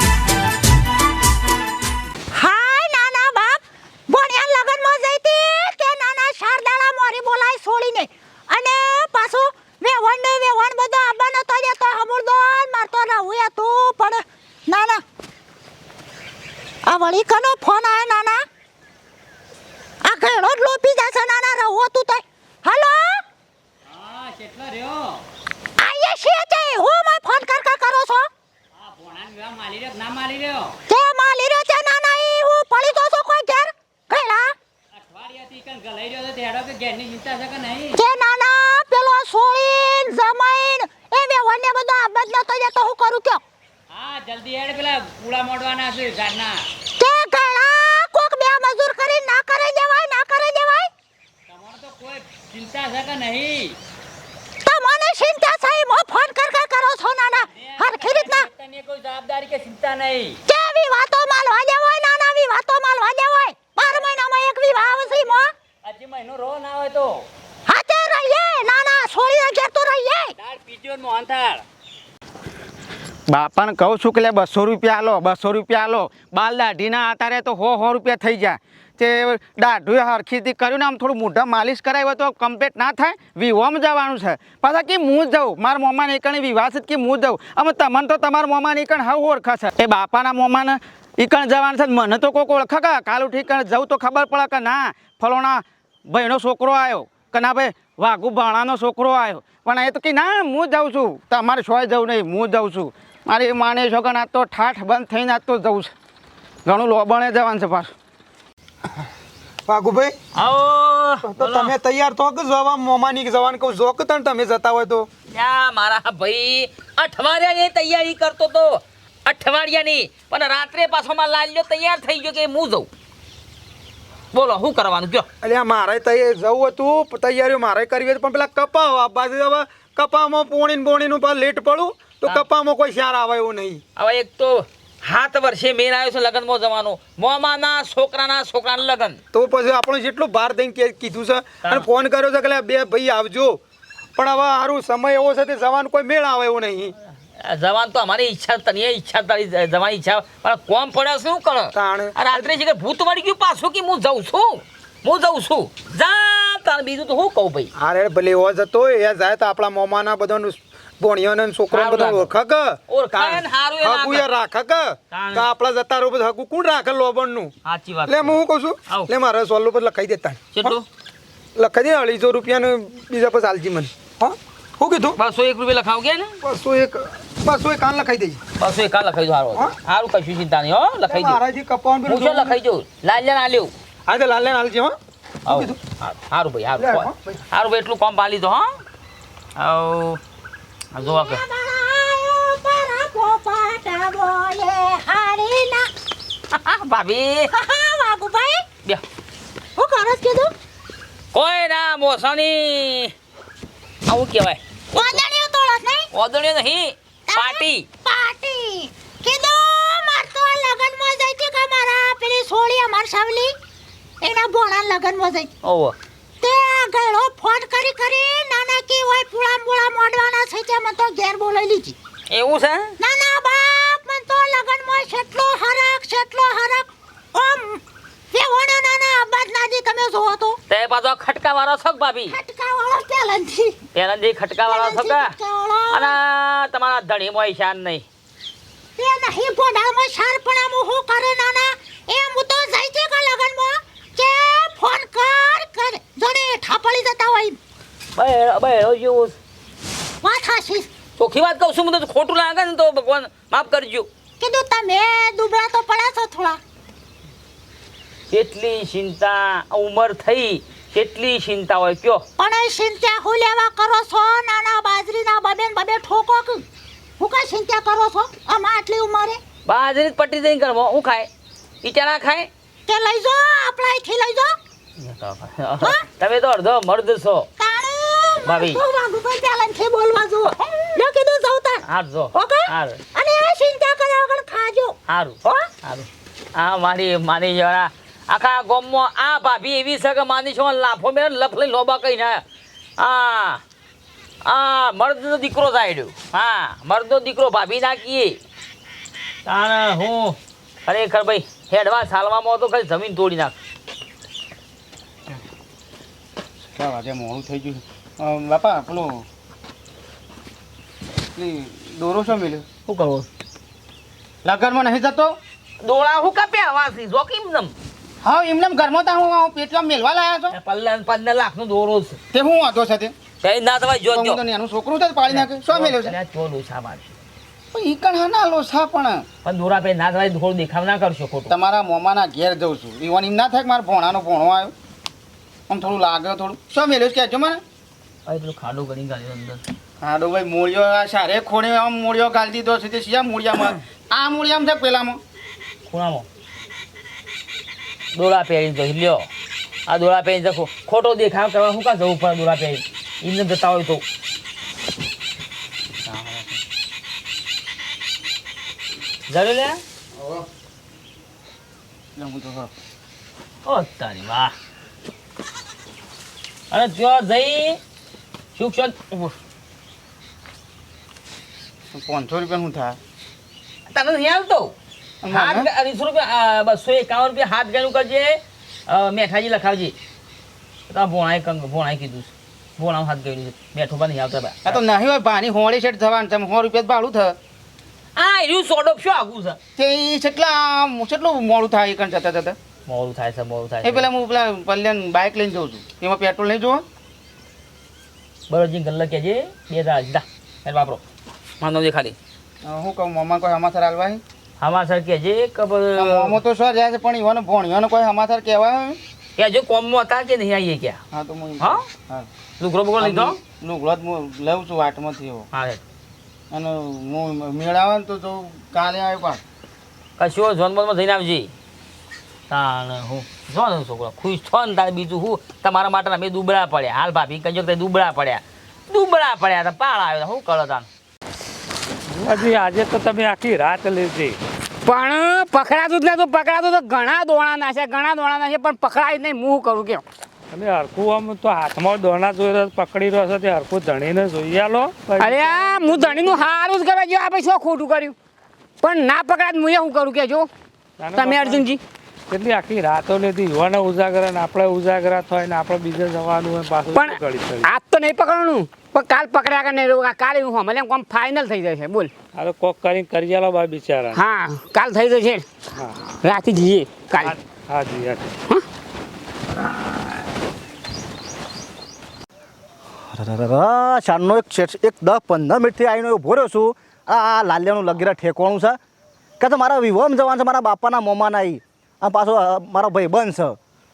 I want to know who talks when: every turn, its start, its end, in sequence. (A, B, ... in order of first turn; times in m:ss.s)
0:02.3-0:15.0 A
0:16.8-0:18.4 A
0:20.0-0:23.2 A
0:24.0-0:25.2 B
0:25.8-0:28.3 A
0:28.9-0:30.7 B
0:30.9-0:34.5 A
0:35.0-0:38.0 B
0:37.9-0:43.4 A
0:43.9-0:46.5 B
0:47.0-0:50.9 A
0:51.5-0:53.7 B
0:54.6-0:58.5 A
0:57.6-1:00.4 B
1:00.5-1:05.5 A
1:04.8-1:05.2 B
1:05.8-1:07.1 B
1:07.6-1:10.3 A
1:10.4-1:11.6 B
1:13.3-1:45.9 C
1:46.6-1:47.9 C
1:49.7-1:50.1 D
1:50.4-1:51.7 E
1:51.2-1:55.1 D
1:55.3-2:02.9 E
2:04.3-2:05.3 E
2:05.4-2:13.8 D
2:14.0-2:19.2 E
2:19.3-2:23.6 D
2:24.2-2:26.9 D
2:27.4-2:37.7 E
2:31.7-2:32.5 D
2:37.8-2:47.5 D
2:41.7-2:42.3 E
2:42.9-2:44.3 E
2:45.1-2:45.5 E
2:47.6-2:49.1 E
2:48.1-2:50.8 D
2:50.5-2:50.8 E
2:51.6-2:55.2 D
2:55.2-2:56.4 E
2:56.4-2:58.4 D
2:58.6-3:01.4 E
3:01.1-3:02.6 D
3:02.1-3:03.7 E
3:04.1-3:05.8 D
3:05.4-3:08.8 E
3:06.8-3:07.4 D
3:09.6-3:10.2 E
3:10.9-3:11.4 E
3:11.0-3:15.9 A
3:16.5-3:17.5 E
3:17.5-3:18.6 A
3:19.8-3:20.5 A
3:21.3-3:23.1 E
3:24.0-3:25.2 E
3:24.9-3:26.1 A
3:26.1-3:27.8 E
3:27.3-3:33.5 A
3:34.2-3:35.5 A
3:35.6-3:36.0 E
3:36.4-3:42.0 A
3:42.3-3:43.0 E
3:43.0-3:47.8 A
3:48.3-3:50.6 A
3:50.7-3:52.3 E
3:52.3-3:53.8 A
3:53.9-3:55.3 E
3:54.6-3:56.2 A
3:55.9-3:58.0 E
3:59.0-4:07.6 A
4:08.2-4:09.4 E
4:10.2-4:10.9 A
4:11.2-4:14.1 E
4:14.4-4:16.6 A
4:18.3-4:22.2 E
4:22.4-4:26.6 A
4:27.2-4:29.4 A
4:29.6-4:31.3 E
4:31.8-4:32.5 E
4:32.9-4:34.5 A
4:35.0-4:37.5 E
4:37.6-4:41.8 A
4:38.4-4:38.8 E
4:41.8-4:43.0 E
4:42.3-4:45.7 A
4:45.1-4:52.4 E
4:53.0-4:53.6 E
4:54.4-4:58.4 E
4:59.4-5:03.6 E
5:06.7-5:09.2 C
5:11.3-5:12.6 C
5:12.9-5:13.3 E
5:14.4-5:15.4 C
5:15.8-5:17.7 E
5:18.2-5:20.6 C
5:20.5-5:22.2 E
5:22.3-5:23.1 C
5:23.4-5:24.4 E
5:24.1-5:26.2 C
5:25.3-5:27.1 E
5:27.7-5:29.2 C
5:29.4-5:31.5 E
5:31.5-5:34.7 C
5:35.7-5:37.6 C
5:38.2-5:39.6 E
5:40.0-5:45.2 C
5:45.9-5:46.3 E
5:48.1-5:49.3 E
5:49.8-5:54.0 E
5:56.0-5:56.6 E
5:59.3-5:59.8 E
6:00.2-6:00.4 C
6:02.2-6:02.7 C
6:03.6-6:04.5 E
6:06.7-6:07.8 E
6:08.5-6:09.3 E
6:11.9-6:13.0 C
6:13.9-6:14.7 E
6:15.2-6:15.7 C
6:15.3-6:19.9 E
6:20.9-6:24.8 E
6:24.6-6:27.4 C
6:28.2-6:29.6 E
6:29.8-6:32.6 C
6:32.8-6:34.1 E
6:33.8-6:36.8 C
6:38.5-6:41.0 E
6:41.6-6:42.2 E
6:42.6-6:44.2 C
6:44.6-6:46.4 E
6:46.0-6:49.0 C
6:49.4-6:51.0 E
6:51.1-6:52.3 C
6:52.6-6:53.4 E
6:53.0-6:55.5 C
6:55.5-6:55.8 E
6:56.5-6:59.4 C
7:00.2-7:01.5 E
7:02.5-7:10.9 E
7:12.1-7:14.4 F
7:14.8-7:20.0 G
7:20.5-7:26.4 F
7:25.2-7:28.1 G
7:28.8-7:30.5 G
7:31.0-7:31.6 F
7:31.1-7:31.8 G
7:32.3-7:37.7 F
7:36.9-7:42.1 G
7:42.3-7:44.2 F
7:44.1-7:45.4 G
7:45.7-7:46.0 F
7:46.1-7:47.4 G
7:47.2-7:48.3 F
7:53.1-7:58.8 H
7:59.4-8:03.6 H